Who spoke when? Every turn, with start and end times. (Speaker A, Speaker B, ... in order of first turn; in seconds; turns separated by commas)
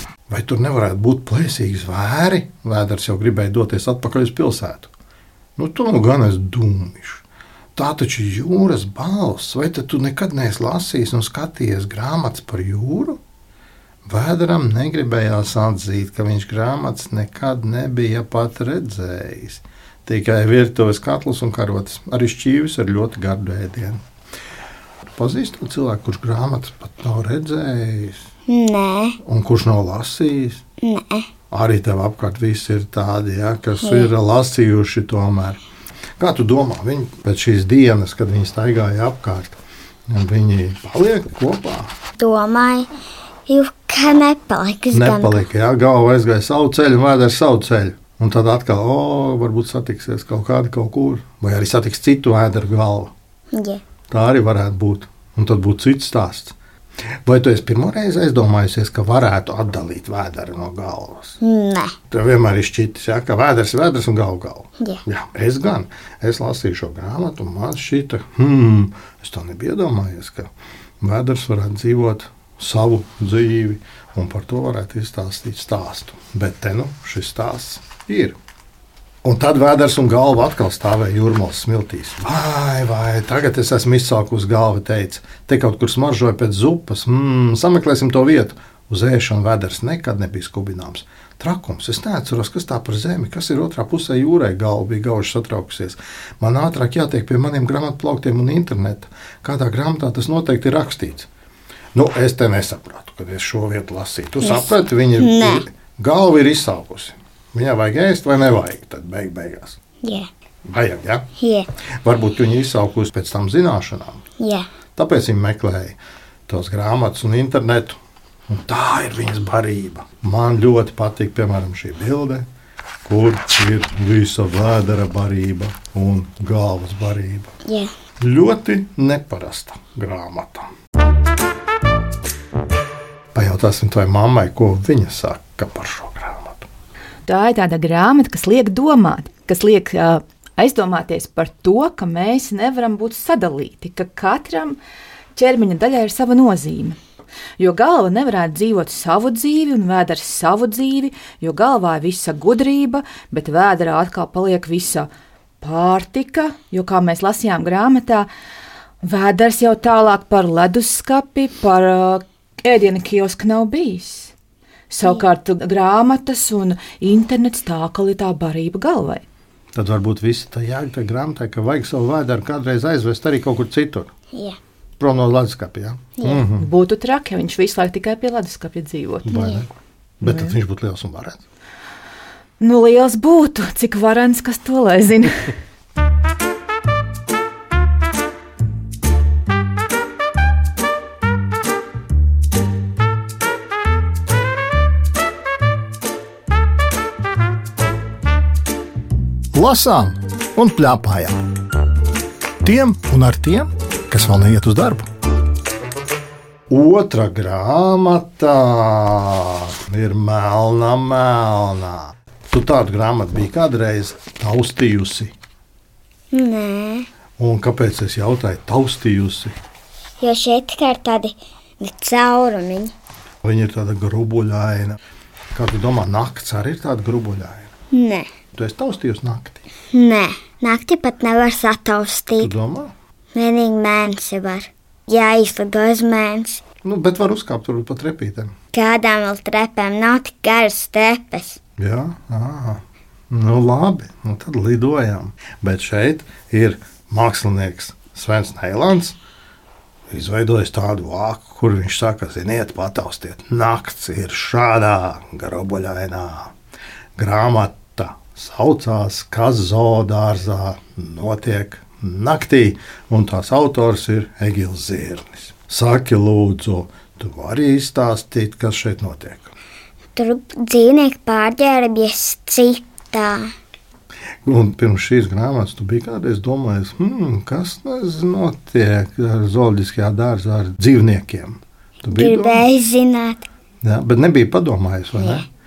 Speaker A: 0.3-4.9, Speaker A: 5.6-7.2, Speaker A: 7.8-13.2, Speaker A: 14.1-24.0, Speaker A: 25.2-28.2, Speaker B: 28.5-29.2, Speaker A: 29.2-30.6, Speaker B: 30.8-31.3, Speaker A: 31.5-35.6, Speaker B: 33.8-34.1, Speaker A: 36.2-41.9, Speaker B: 42.2-42.9, Speaker B: 43.5-45.5, Speaker A: 44.9-53.1, Speaker B: 53.5-53.8, Speaker A: 54.1-56.5, Speaker A: 57.3-61.4, Speaker B: 61.4-62.0, Speaker A: 62.1-78.4, Speaker A: 79.2-101.3, Speaker A: 101.9-109.8, Speaker B: 104.4-105.7, Speaker B: 110.0-110.3, Speaker A: 110.7-111.3, Speaker B: 111.4-111.7, Speaker A: 112.0-114.2, Speaker B: 114.4-114.7, Speaker A: 115.0-118.0, Speaker A: 118.5-122.5, Speaker A: 123.0-127.5, Speaker B: 127.7-127.9, Speaker A: 128.2-130.7, Speaker A: 133.3-136.7, Speaker C: 137.3-144.8, Speaker C: 145.4-147.0, Speaker C: 147.6-155.1, Speaker C: 155.6-158.3, Speaker C: 159.0-164.3, Speaker C: 164.9-169.2, Speaker B: 165.0-165.3, Speaker A: 169.7-174.1, Speaker B: 174.3-174.6, Speaker A: 175.0-176.7, Speaker B: 176.2-176.5, Speaker C: 176.6-179.6, Speaker A: 179.2-179.7, Speaker B: 179.3-179.6, Speaker A: 180.2-181.4, Speaker C: 180.2-180.6, Speaker C: 182.6-185.6, Speaker A: 199.5-201.4, Speaker A: 202.6-205.1, Speaker A: 206.7-215.3, Speaker B: 216.3-217.1, Speaker A: 217.4-219.5, Speaker B: 220.2-222.9, Speaker A: 223.4-225.0, Speaker A: 225.5-227.7, Speaker B: 227.9-228.3, Speaker A: 228.6-229.6, Speaker B: 229.9-232.5, Speaker A: 232.4-232.9, Speaker B: 233.3-236.6, Speaker A: 236.8-238.5, Speaker B: 238.7-241.6, Speaker A: 241.8-249.2, Speaker A: 250.1-256.5, Speaker A: 257.2-269.5, Speaker B: 270.1-273.5, Speaker A: 274.4-282.7, Speaker B: 282.1-283.5, Speaker A: 283.8-285.5, Speaker B: 285.2-285.4